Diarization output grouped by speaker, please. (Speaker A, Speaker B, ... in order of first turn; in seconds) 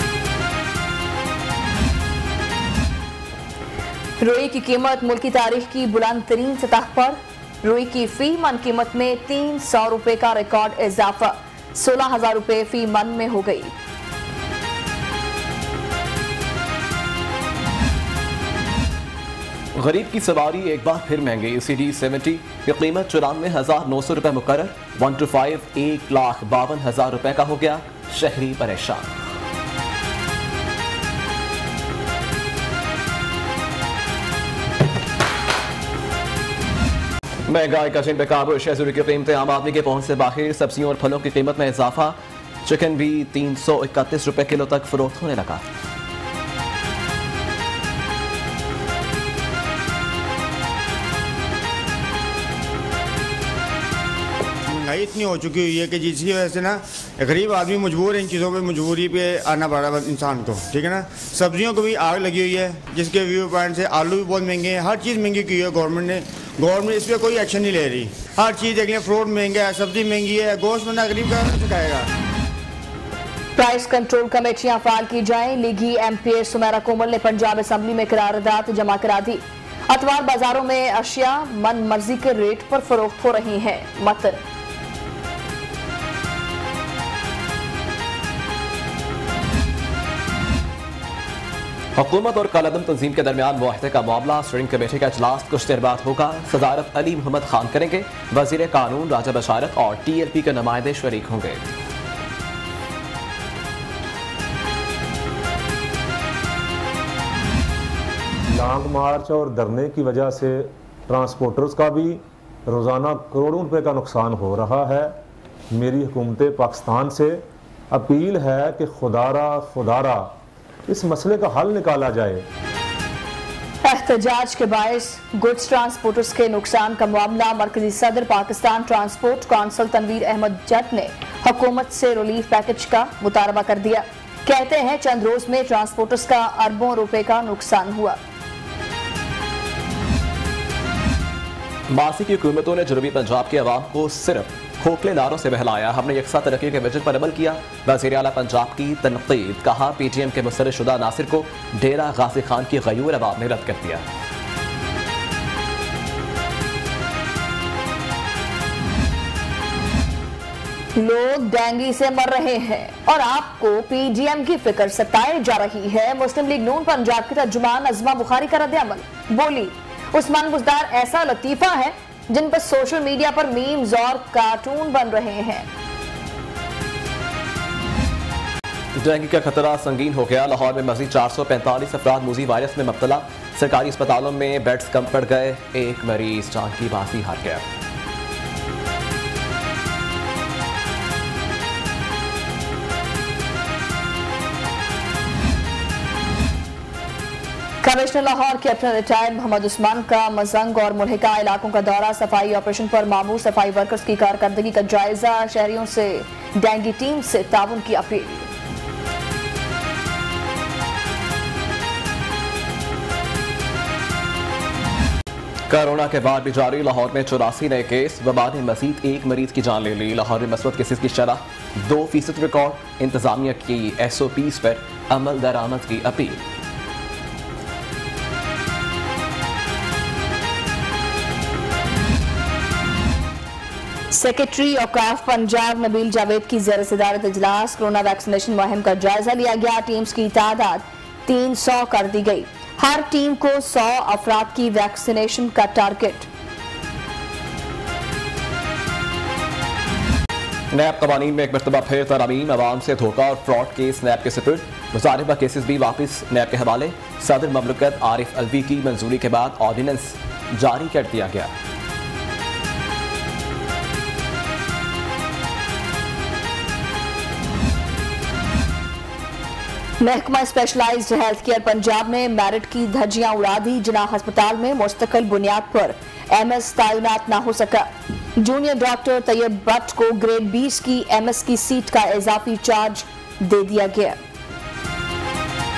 Speaker A: 4.2-13.7, 73.6-84.4, 123.8-138.2, 161.0-175.7, 197.8-208.5, 234.1-246.3, 270.0-284.2
Speaker B: 19.8-29.1, 37.5-45.6, 92.0-101.7, 141.9-154.0, 179.0-187.7, 215.7-226.4, 250.7-261.5
Speaker C: 54.7-72.1
Speaker D: 108.5-115.1, 115.7-117.4, 117.9-120.3, 120.9-122.4